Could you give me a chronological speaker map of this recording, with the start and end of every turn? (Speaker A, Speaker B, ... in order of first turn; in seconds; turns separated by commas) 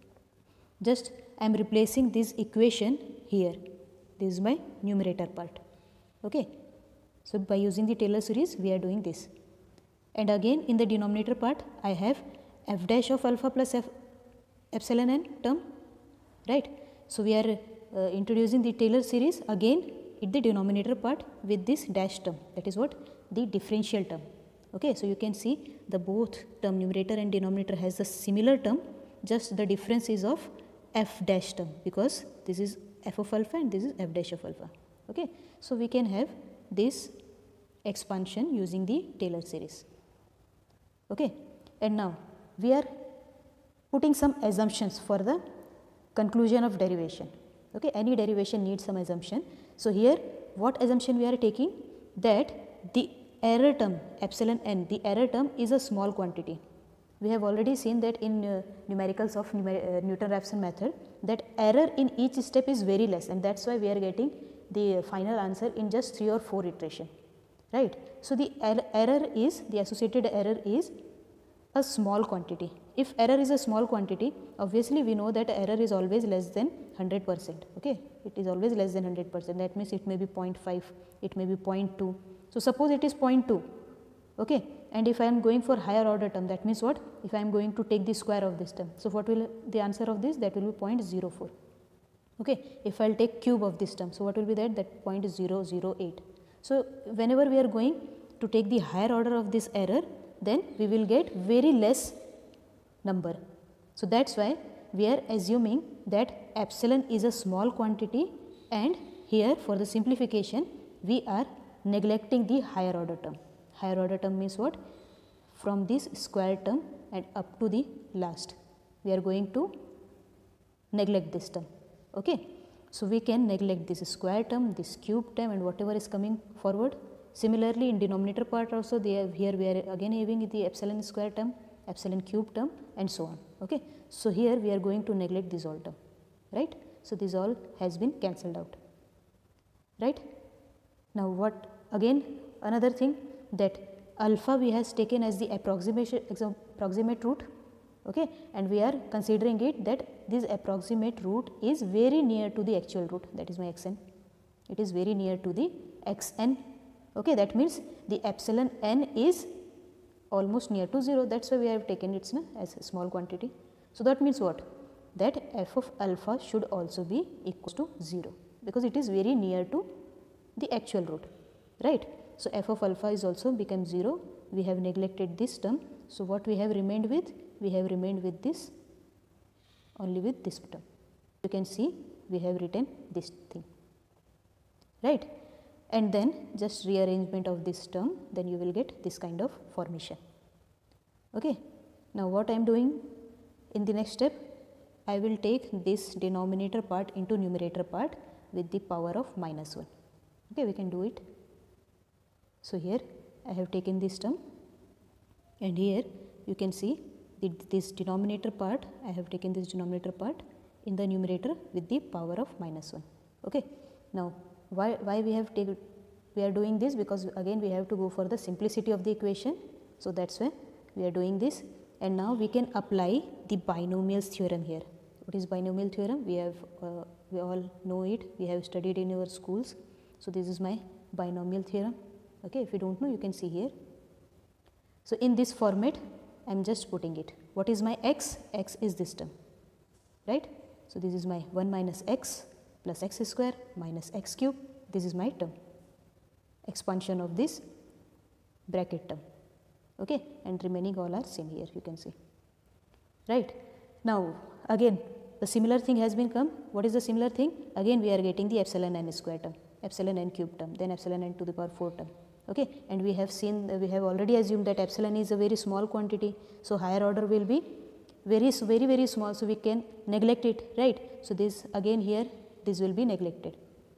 Speaker A: 0.8-3.6, Speaker A: 4.2-5.6, Speaker A: 6.2-6.5, Speaker A: 7.2-9.3, Speaker A: 10.1-13.9, Speaker A: 14.7-15.7, Speaker A: 16.4-37.2, Speaker A: 37.8-39.9, Speaker A: 41.1-43.0, Speaker A: 43.9-45.4, Speaker A: 46.1-56.6, Speaker A: 57.2-67.1, Speaker A: 67.7-70.9, Speaker A: 71.7-83.7, Speaker A: 84.4-91.5, Speaker A: 92.4-102.2, Speaker A: 103.0-103.4, Speaker A: 104.0-114.8, Speaker A: 115.5-119.7, Speaker A: 120.9-136.0, Speaker A: 136.5-138.8, Speaker A: 140.0-140.3, Speaker A: 141.1-147.5, Speaker A: 148.0-154.0, Speaker A: 154.7-159.6, Speaker A: 160.3-169.9, Speaker A: 170.6-178.7, Speaker A: 179.9-180.8, Speaker A: 181.4-183.7, Speaker A: 185.0-185.3, Speaker A: 185.9-190.2, Speaker A: 191.3-191.6, Speaker A: 192.1-193.2, Speaker A: 193.7-194.5, Speaker A: 195.1-199.9, Speaker A: 200.5-201.2, Speaker A: 202.6-204.4, Speaker A: 205.6-215.8, Speaker A: 216.3-233.7, Speaker A: 235.0-239.3, Speaker A: 240.2-245.5, Speaker A: 246.7-247.7, Speaker A: 248.7-249.2, Speaker A: 250.0-252.1, Speaker A: 253.3-273.6